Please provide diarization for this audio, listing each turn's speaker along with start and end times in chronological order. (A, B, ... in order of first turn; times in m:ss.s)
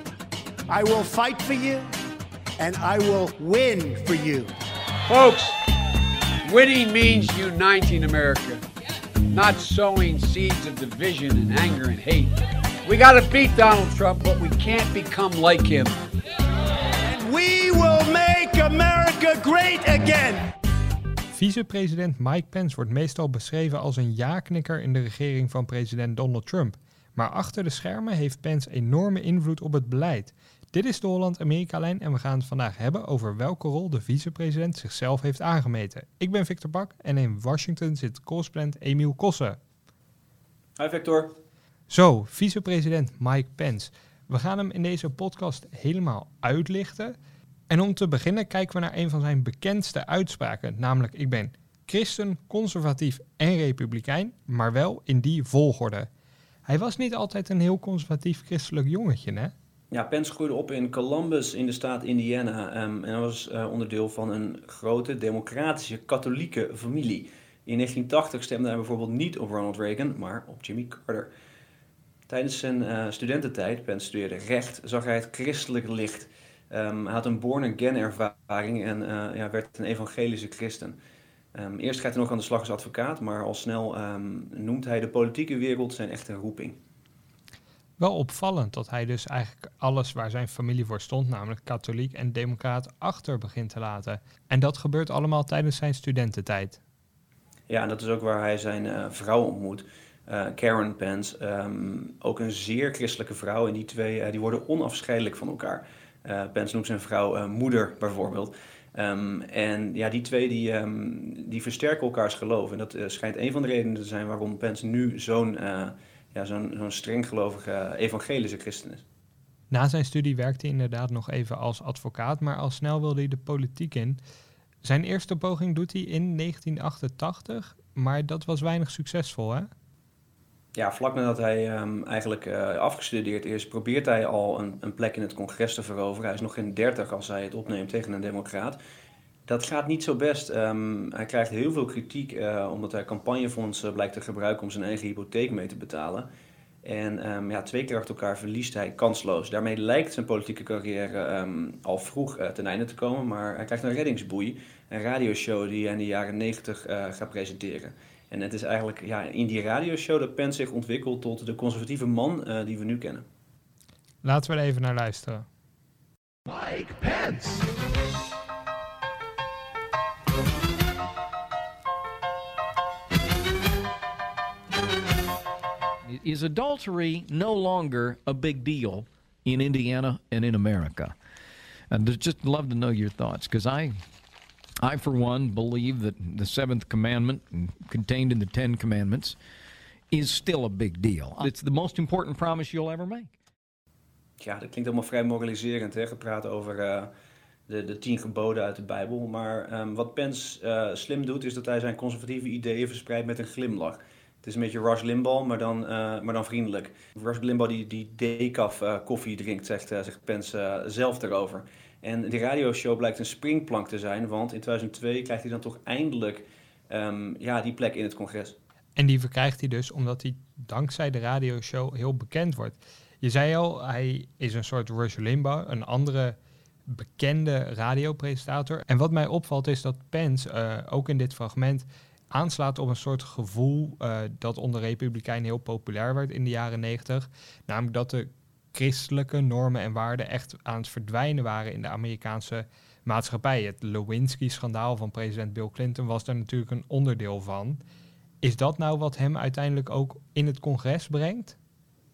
0:00.7-0:01.9 A
0:02.6-0:04.5 A
0:05.1-0:05.6 B
0:06.5-0:08.6 B
0:09.3-0:12.3 B
0:12.9-0:15.9 B
0:17.0-0:20.5 A
0:21.3-0:39.6 C
0:40.8-0:41.3 D
0:41.9-0:47.2 C
0:47.7-0:56.1 C
0:56.7-0:59.5 C
0:59.9-1:11.3 D
1:12.3-1:21.0 D
1:21.6-1:26.8 D
1:28.0-1:36.8 C
1:37.7-1:59.0 D
1:59.7-2:04.2 C
2:04.8-2:09.7 C
2:10.8-2:18.8 D
2:19.5-2:26.3 D
2:26.8-2:43.2 D
2:44.2-2:45.5 C
2:46.9-2:47.4 E
2:56.0-3:01.2 E
3:01.9-3:04.0 E
3:04.8-3:09.4 E
3:10.1-3:13.3 E
3:14.4-3:17.1 D
3:17.7-3:38.6 D
3:39.0-3:46.4 C
3:46.9-4:07.8 C
4:08.4-4:11.6 C